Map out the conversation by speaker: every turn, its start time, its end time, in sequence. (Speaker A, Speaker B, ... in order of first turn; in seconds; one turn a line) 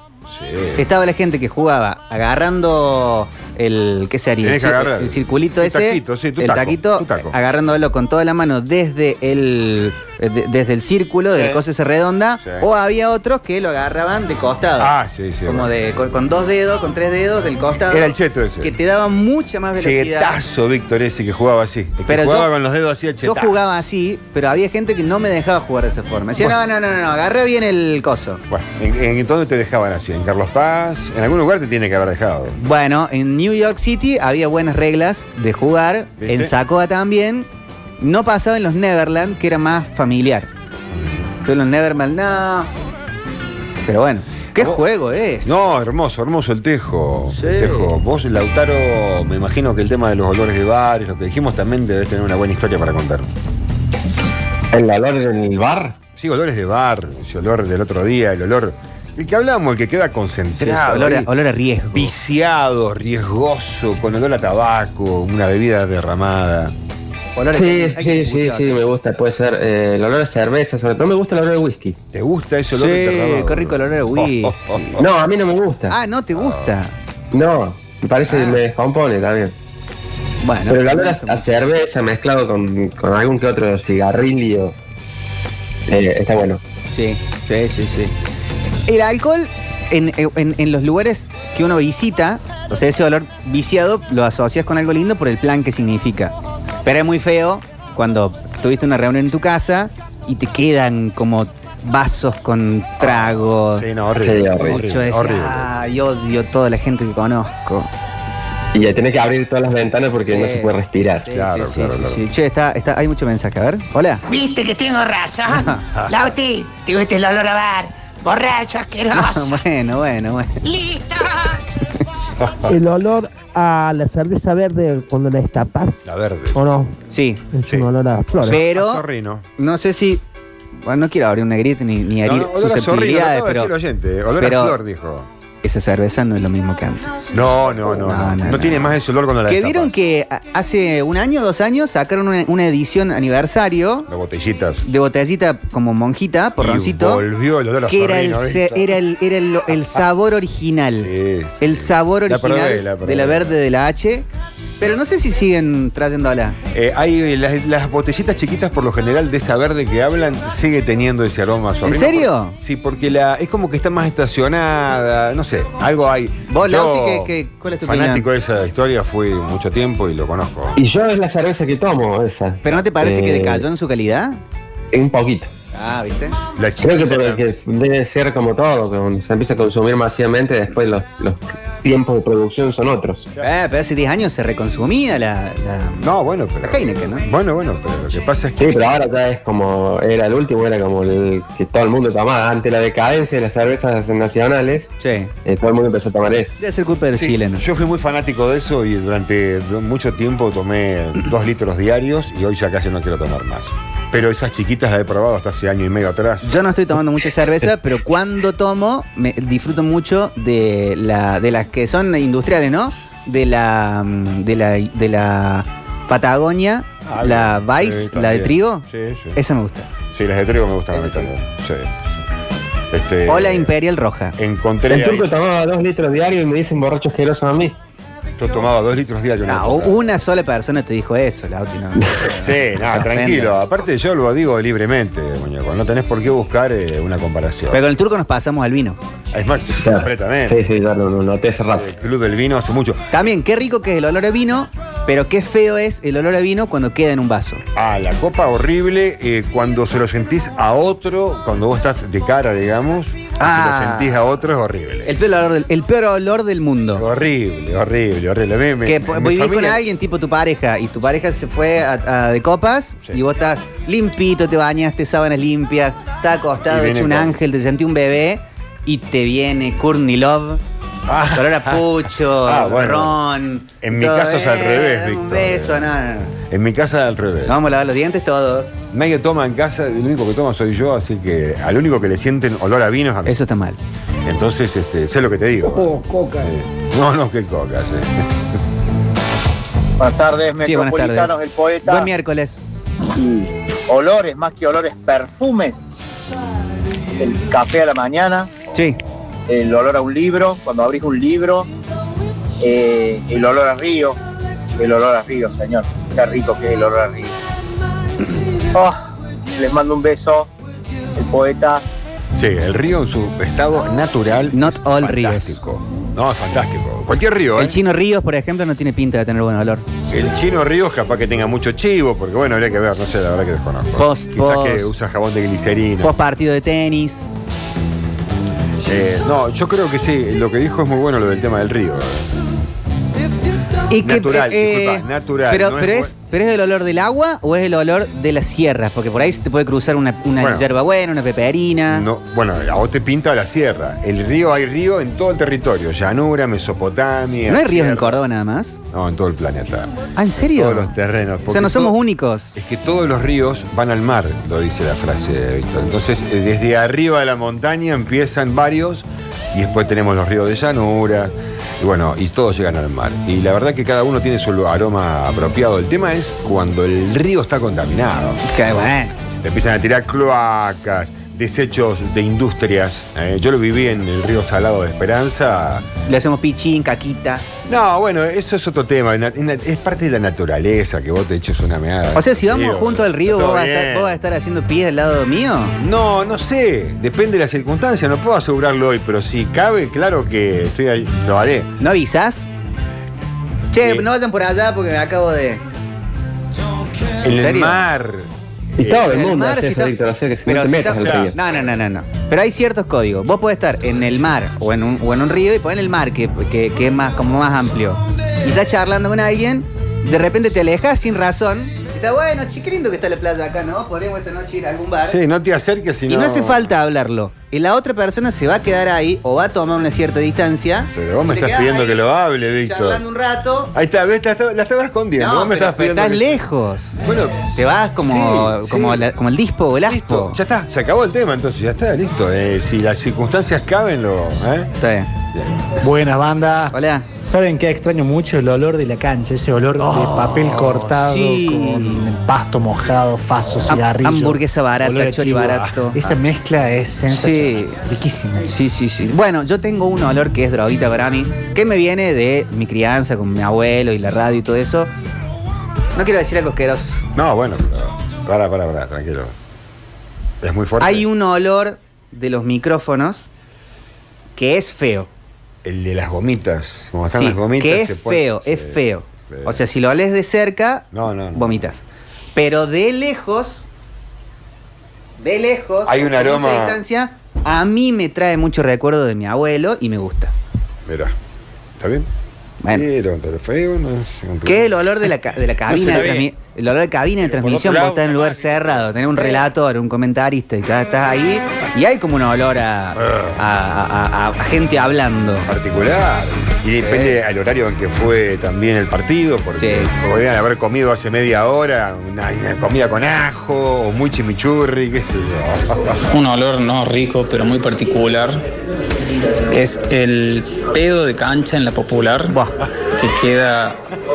Speaker A: 0.3-0.8
Speaker B: 0.8-14.9
Speaker A: 4.4-7.3
Speaker A: 11.3-11.6
Speaker A: 12.4-12.7
Speaker A: 14.8-15.7
Speaker B: 15.4-20.4
Speaker A: 17.9-18.7
Speaker A: 19.8-23.8
Speaker B: 22.1-22.5
Speaker B: 23.2-28.4
Speaker A: 28.5-32.6
Speaker B: 32.6-37.5
Speaker A: 36.2-36.5
Speaker B: 38.0-40.5
Speaker A: 40.9-41.3
Speaker B: 41.4-42.7
Speaker B: 43.9-45.6
Speaker A: 44.5-44.8
Speaker A: 45.4-53.3
Speaker B: 47.3-47.9
Speaker C: 54.7-56.0
Speaker A: 56.1-61.3
Speaker B: 60.6-62.1
Speaker A: 61.9-66.7
Speaker B: 67.3-68.7
Speaker C: 67.5-72.0
Speaker A: 72.1-75.1
Speaker B: 72.7-75.0
Speaker C: 75.0-76.0
Speaker B: 75.9-76.9
Speaker A: 76.3-76.8
Speaker C: 77.3-79.5
Speaker B: 78.3-78.6
Speaker B: 80.4-81.5
Speaker C: 80.7-84.8
Speaker C: 85.9-86.6
Speaker B: 86.9-88.1
Speaker B: 88.9-103.8
Speaker A: 103.0-105.7
Speaker C: 104.2-104.8
Speaker B: 104.6-107.9
Speaker C: 108.7-111.3
Speaker B: 110.2-114.2
Speaker A: 111.3-112.2
Speaker D: 114.3-119.6
Speaker B: 115.5-115.8
Speaker B: 119.1-120.6
Speaker D: 120.6-121.6
Speaker A: 122.4-122.7
Speaker E: 122.7-127.0
Speaker A: 126.0-126.6
Speaker B: 127.1-127.4
Speaker E: 127.5-128.6
Speaker A: 127.7-129.4
Speaker B: 128.5-129.0
Speaker B: 129.6-130.2
Speaker B: 130.8-133.7
Speaker A: 132.2-135.3
Speaker B: 134.4-134.8
Speaker B: 135.6-138.9
Speaker A: 137.3-140.0
Speaker B: 139.5-144.1
Speaker A: 144.1-144.8
Speaker B: 144.8-147.2
Speaker A: 146.6-149.0
Speaker B: 147.9-154.3
Speaker A: 151.0-153.6
Speaker B: 154.8-156.6
Speaker A: 156.7-170.8
Speaker B: 161.8-162.6
Speaker B: 166.5-168.3
Speaker C: 170.8-173.7
Speaker B: 172.6-174.4
Speaker C: 174.9-175.5
Speaker B: 175.7-176.3
Speaker A: 176.6-177.4
Speaker C: 176.8-183.3
Speaker B: 183.4-186.0
Speaker A: 186.0-188.9
Speaker B: 186.6-187.2
Speaker C: 188.6-194.9
Speaker B: 195.0-195.3
Speaker C: 195.4-196.5
Speaker B: 196.6-197.6
Speaker A: 197.1-206.6
Speaker B: 206.4-219.9
Speaker A: 217.0-219.4
Speaker A: 220.1-221.9
Speaker B: 220.9-221.3
Speaker A: 222.9-223.7
Speaker B: 223.3-224.3
Speaker A: 224.4-225.3
Speaker C: 224.9-227.8
Speaker A: 228.4-230.0
Speaker B: 229.5-233.6
Speaker A: 232.3-237.8
Speaker B: 237.7-239.0
Speaker A: 239.3-240.6
Speaker C: 239.8-241.9
Speaker A: 241.7-243.0
Speaker B: 243.1-247.6
Speaker A: 247.7-255.2
Speaker B: 253.4-254.2
Speaker B: 255.1-257.0
Speaker A: 256.9-259.8
Speaker B: 258.8-270.6
Speaker A: 266.7-267.3
Speaker A: 271.1-273.2
Speaker B: 271.3-276.3
Speaker A: 273.8-275.9
Speaker A: 276.5-277.6
Speaker B: 277.5-278.8
Speaker A: 278.9-283.4
Speaker B: 283.2-283.8
Speaker A: 284.2-288.3
Speaker F: 290.0-292.1
Speaker B: 290.6-292.6
Speaker F: 293.1-295.9
Speaker F: 297.2-298.6
Speaker B: 298.7-299.0
Speaker F: 299.5-301.7
Speaker F: 302.6-304.2
Speaker F: 304.8-307.4
Speaker F: 308.7-310.5
Speaker F: 311.1-311.8
Speaker A: 312.3-317.8
Speaker B: 314.5-315.6
Speaker B: 317.6-319.8
Speaker A: 320.1-326.2
Speaker B: 323.9-324.9
Speaker B: 326.0-327.3
Speaker A: 328.8-332.3
Speaker B: 333.9-342.1
Speaker A: 334.0-336.1
Speaker A: 340.4-340.7
Speaker A: 341.9-348.2
Speaker B: 347.5-348.8
Speaker A: 348.9-352.0
Speaker B: 350.1-350.9
Speaker B: 351.5-352.5
Speaker A: 352.5-368.4
Speaker B: 368.4-369.2
Speaker A: 369.2-375.9
Speaker B: 376.1-377.5
Speaker A: 377.6-384.2
Speaker B: 382.1-385.8
Speaker A: 385.8-391.7
Speaker B: 391.8-392.5
Speaker B: 393.7-395.6
Speaker A: 393.8-394.1
Speaker A: 397.2-399.1
Speaker B: 397.3-397.8
Speaker C: 398.8-401.4
Speaker B: 399.0-399.9
Speaker B: 400.4-415.2
Speaker A: 400.8-401.3
Speaker A: 415.0-416.7
Speaker B: 416.1-422.1
Speaker A: 420.9-423.0
Speaker B: 422.6-423.7
Speaker A: 423.7-426.4
Speaker B: 425.2-427.0
Speaker A: 427.0-429.1
Speaker B: 427.6-430.4
Speaker A: 429.8-434.7
Speaker B: 434.8-435.1
Speaker A: 435.3-435.6
Speaker G: 435.8-448.5
Speaker B: 436.7-437.1
Speaker B: 440.1-442.0
Speaker B: 443.7-446.0
Speaker B: 447.1-447.8
Speaker B: 448.4-454.9
Speaker B: 455.9-457.0
Speaker A: 457.1-459.3
Speaker A: 460.4-461.1
Speaker B: 460.8-463.3
Speaker B: 464.4-465.1
Speaker A: 465.6-469.6
Speaker B: 467.1-471.8
Speaker A: 470.9-471.7
Speaker B: 472.3-473.6
Speaker B: 475.2-480.3
Speaker A: 475.8-476.8
Speaker A: 480.9-481.1
Speaker A: 481.8-482.1
Speaker A: 482.7-484.8
Speaker B: 484.4-495.5
Speaker A: 485.6-486.2
Speaker A: 487.3-488.8
Speaker A: 492.9-493.4
Speaker A: 495.4-506.0
Speaker B: 496.8-497.1
Speaker B: 499.6-499.9
Speaker H: 506.1-508.4
Speaker H: 509.5-512.4
Speaker H: 513.0-513.8